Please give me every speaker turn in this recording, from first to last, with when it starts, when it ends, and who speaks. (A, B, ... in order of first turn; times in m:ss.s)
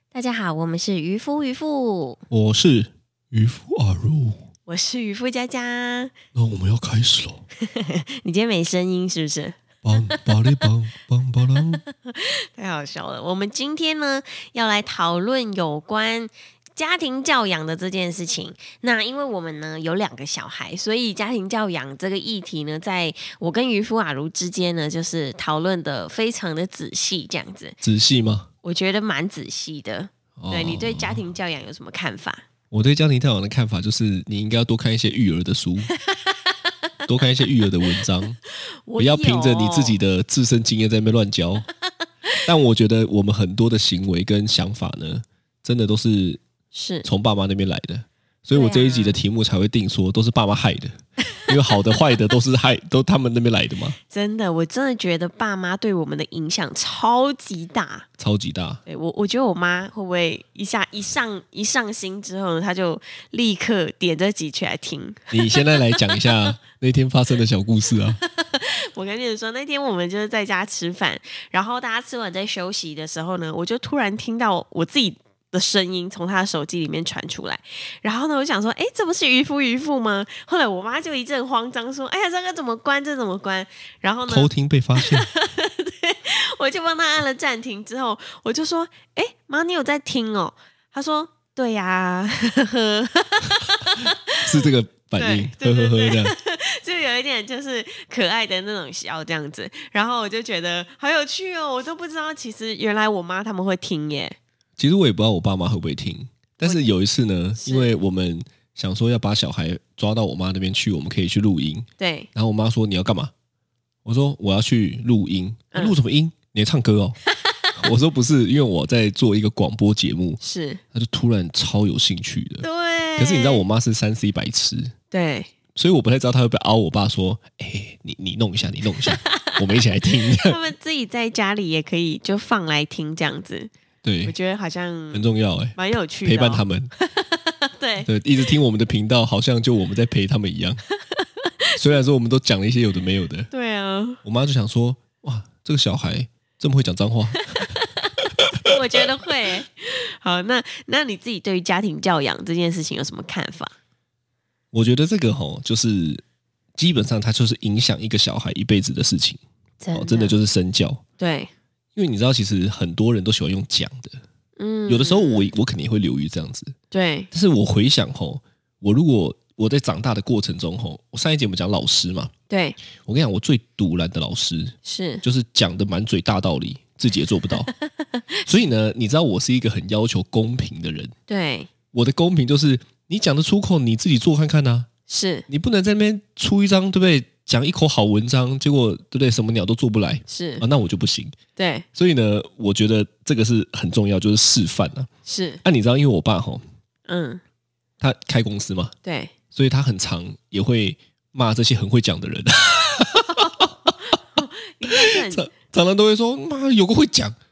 0:00.1-0:02.2 A
0:02.3-0:04.4 B
0:04.7-0:06.1 A
0:06.4-0:07.4 B
0:07.6-0:10.6 A
0:09.8-0:11.8 B
0:12.0-0:27.8 A
0:27.8-0:28.5 B
0:28.6-0:32.4 A
0:30.4-0:31.2 B
0:32.7-0:35.9 B
0:37.1-0:38.4 B
0:38.9-0:40.0 A
0:39.0-0:41.7 B
0:42.4-0:46.4 B
0:46.7-0:47.1 A
0:47.0-0:51.0 B
0:48.5-0:49.2 A
0:51.5-0:54.0 B
0:54.1-0:58.1 A
0:58.2-0:58.8 B
0:58.9-1:06.3 A
1:05.3-1:08.2 B
1:08.2-1:34.6 A
1:24.3-1:25.3 B
1:34.4-1:36.3 B
1:35.2-1:44.4 A
1:44.8-1:53.3 B
1:47.6-1:48.0 A
1:52.0-1:52.3 A
1:54.0-1:57.2 B
1:57.4-1:57.7 A
1:57.8-2:00.4 B
2:00.4-2:00.8 A
2:00.9-2:02.6 B
2:02.6-2:03.6 A
2:03.2-2:04.9 B
2:05.1-2:05.5 A
2:05.8-2:10.6 B
2:09.0-2:09.6 A
2:10.3-2:13.7 A
2:14.0-2:14.4 B
2:14.2-2:18.1 A
2:15.1-2:16.9 B
2:18.0-2:20.8 B
2:21.1-2:21.8 A
2:21.8-2:23.5 B
2:23.5-2:24.2 A
2:24.2-2:27.7 B
2:27.5-2:27.9 A
2:28.4-2:29.0 B
2:28.5-2:33.8 A
2:34.7-2:36.2 B
2:36.8-2:39.4 B
2:39.8-2:40.4 A
2:39.9-2:41.0 B
2:41.2-2:41.5 A
2:42.0-2:44.2 B
2:44.6-2:45.5 A
2:44.9-2:46.7 B
2:46.9-2:47.3 A
2:47.3-2:52.3 B
2:52.5-2:52.8 A
2:53.0-2:57.7 B
2:54.8-2:55.2 A
2:57.7-2:58.2 A
2:58.5-3:01.1 B
3:01.3-3:01.7 A
3:01.9-3:04.9 B
3:05.1-3:05.5 A
3:05.5-3:11.4 B
3:10.3-3:10.6 A
3:11.6-3:11.8 A
3:12.0-3:15.1 B
3:15.3-3:15.6 A
3:15.6-3:16.6 B
3:17.1-3:17.4 A
3:18.0-3:19.0 B
3:19.0-3:19.3 A
3:19.5-3:23.9 B
3:23.3-3:25.5 A
3:24.8-3:27.4 B